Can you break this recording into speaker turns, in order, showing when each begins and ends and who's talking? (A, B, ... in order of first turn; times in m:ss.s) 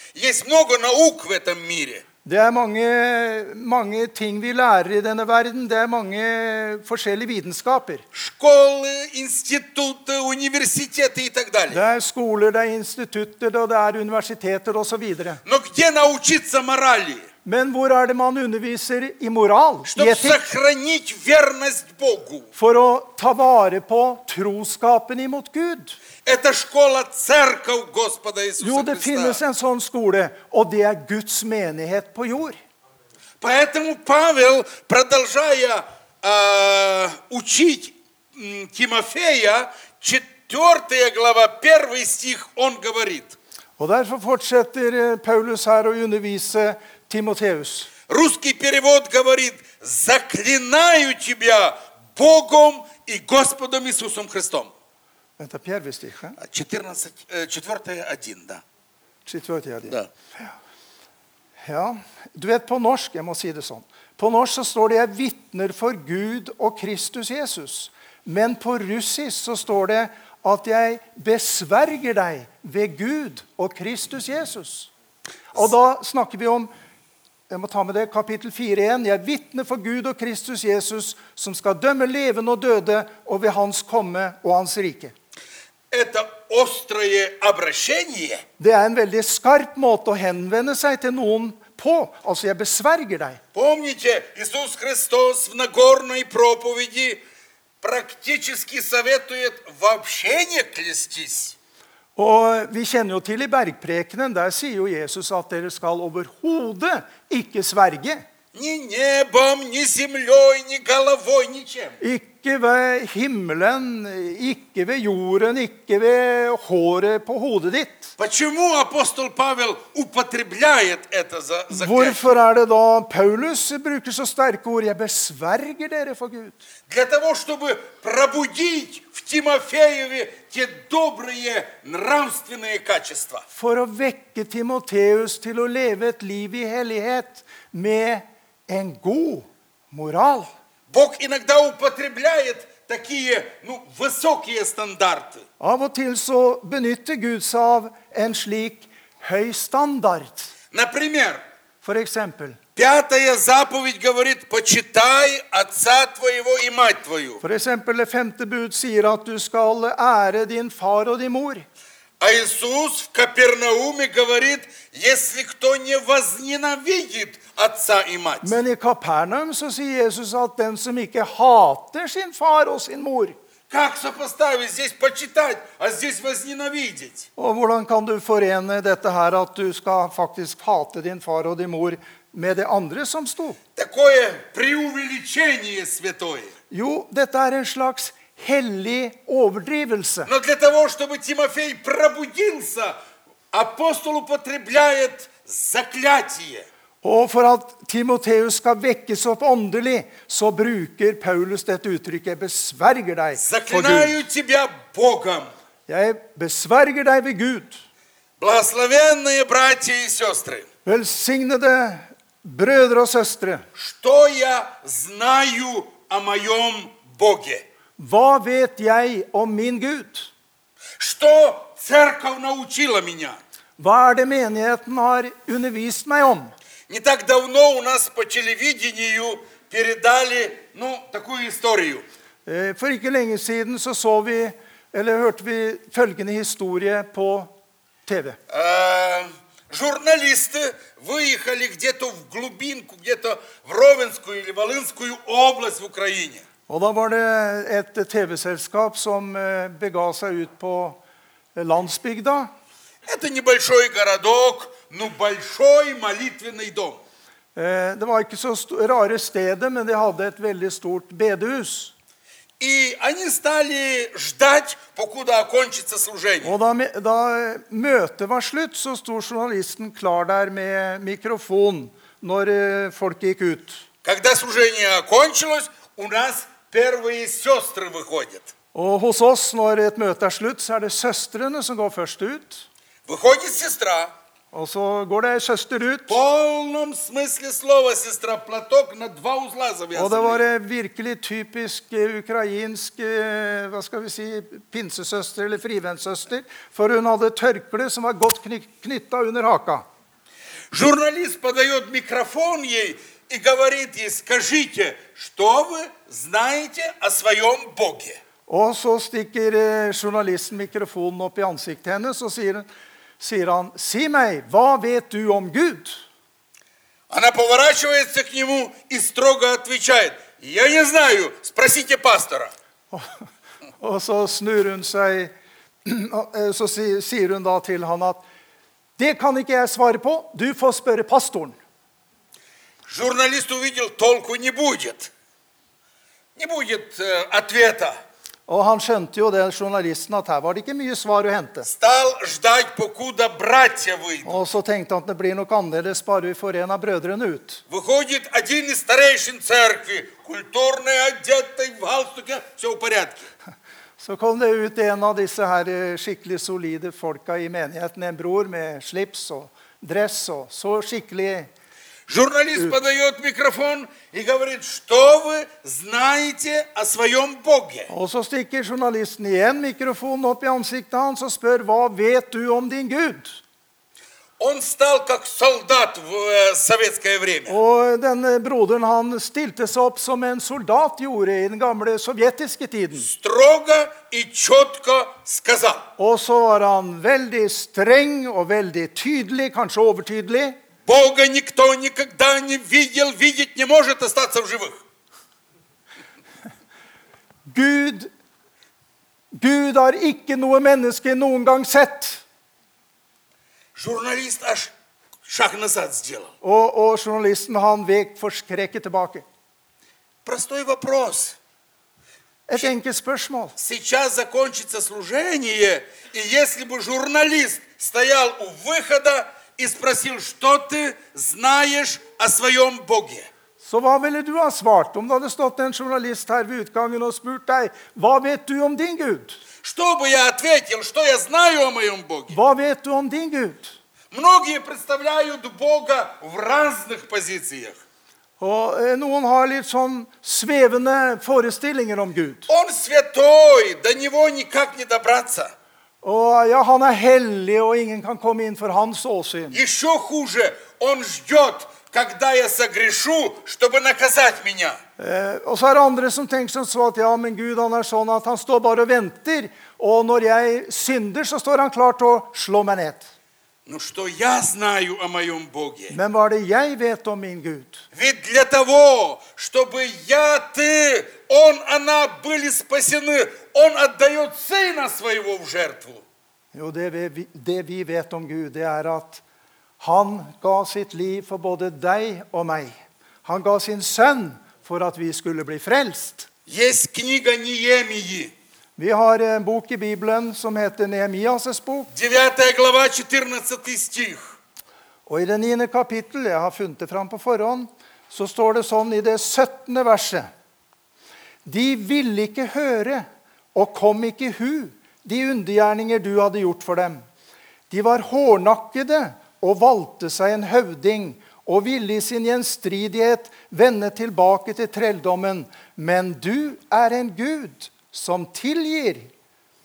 0:00.1-0:02.0 A
0:02.2-0:08.0 B
0:08.1-0:11.8 A
0:11.7-0:15.4 B
0:15.4-0:17.2 A
0:17.4-0:20.4 B
0:19.9-0:22.5 A
0:22.5-0:26.0 B
0:26.2-0:29.4 A
0:28.6-0:32.6 B
0:33.4-0:43.4 A
0:43.8-0:47.9 B
0:48.1-0:54.7 A
0:55.4-0:56.4 B
0:56.4-0:58.6 A
0:59.2-1:00.5 B
1:01.6-1:14.9 B
1:15.5-1:16.7 B
1:17.5-1:25.1 B
1:25.9-1:28.4 A
1:28.6-1:33.4 B
1:33.5-1:37.2 A
1:37.8-1:41.5 A
1:42.2-1:48.2 B
1:48.5-1:52.0 A
1:52.0-1:58.1 B
1:58.2-2:02.3 A
2:01.7-2:06.6 B
2:06.9-2:13.4 A
2:13.5-2:20.5 B
2:20.9-2:25.4 A
2:25.6-2:30.5 B
2:30.7-2:31.4 A
2:31.8-2:32.6 B
2:32.8-2:37.4 A
2:37.4-2:41.6 B
2:42.2-2:48.6 A
2:48.4-2:53.3 B
2:53.7-2:57.3 A
2:57.4-3:03.6 B
3:03.8-3:06.5 A
3:06.7-3:10.3 B
3:10.2-3:13.0 A
3:13.5-3:16.7 A
3:17.0-3:24.2 B
3:23.3-3:25.5 A
3:25.9-3:27.8 B
3:28.4-3:30.7 A
3:30.8-3:33.6 B
3:33.7-3:37.6 A
3:38.0-3:40.3 B
3:41.0-3:43.4 A
3:43.8-3:46.5 B
3:46.9-3:52.0 A
3:52.4-3:57.5 B
3:58.0-3:58.4 B
3:58.5-4:06.4 A
4:06.7-4:11.0 B
4:11.5-4:12.5 B
4:13.0-4:17.0 A
4:17.5-4:21.9 B
4:22.6-4:26.5 A
4:26.4-4:33.8 B
4:34.0-4:38.5 A
4:38.7-4:42.6 B
4:43.0-4:44.1 A
4:44.5-4:46.2 B
4:46.1-4:50.4 A
4:49.9-4:59.8 B
5:00.7-5:08.2 A
5:08.5-5:12.7 B
5:13.2-5:16.0 B
5:17.1-5:22.5 A
5:23.8-5:25.3 B
5:25.8-5:28.2 B
5:29.0-5:31.6 B
5:32.8-5:35.1 A
5:36.4-5:38.0 A
5:38.5-5:41.7 B
5:41.6-5:44.4 A
5:44.2-5:47.6 B
5:47.7-5:53.2 A
5:54.0-6:01.5 B
6:02.1-6:07.9 A
6:07.9-6:13.4 B
6:14.4-6:17.6 A
6:17.5-6:23.1 B
6:23.0-6:25.9 A
6:26.0-6:30.6 B
6:30.8-6:34.8 A
6:37.5-6:38.1 B
6:39.4-6:42.2 B
6:43.7-6:44.7 A
6:45.2-6:46.3 A
6:46.4-6:49.2 B
6:50.2-6:51.4 A
6:52.5-6:53.6 B
6:53.6-7:03.3 A
7:03.6-7:09.4 B
7:09.6-7:12.4 A
7:12.3-7:13.8 B
7:14.1-7:17.8 A
7:18.4-7:22.5 B
7:22.5-7:25.5 A
7:26.0-7:29.6 B
7:29.5-7:34.8 A
7:35.0-7:43.1 B
7:43.6-7:46.0 A
7:45.9-7:47.8 B
7:47.9-7:56.0 A
7:56.5-7:59.2 B
7:59.8-8:02.7 B
8:03.2-8:06.3 B
8:06.5-8:08.3 A
8:08.8-8:11.9 B
8:11.9-8:14.4 A
8:15.1-8:20.3 B
8:21.4-8:27.0 B
8:27.7-8:39.1 B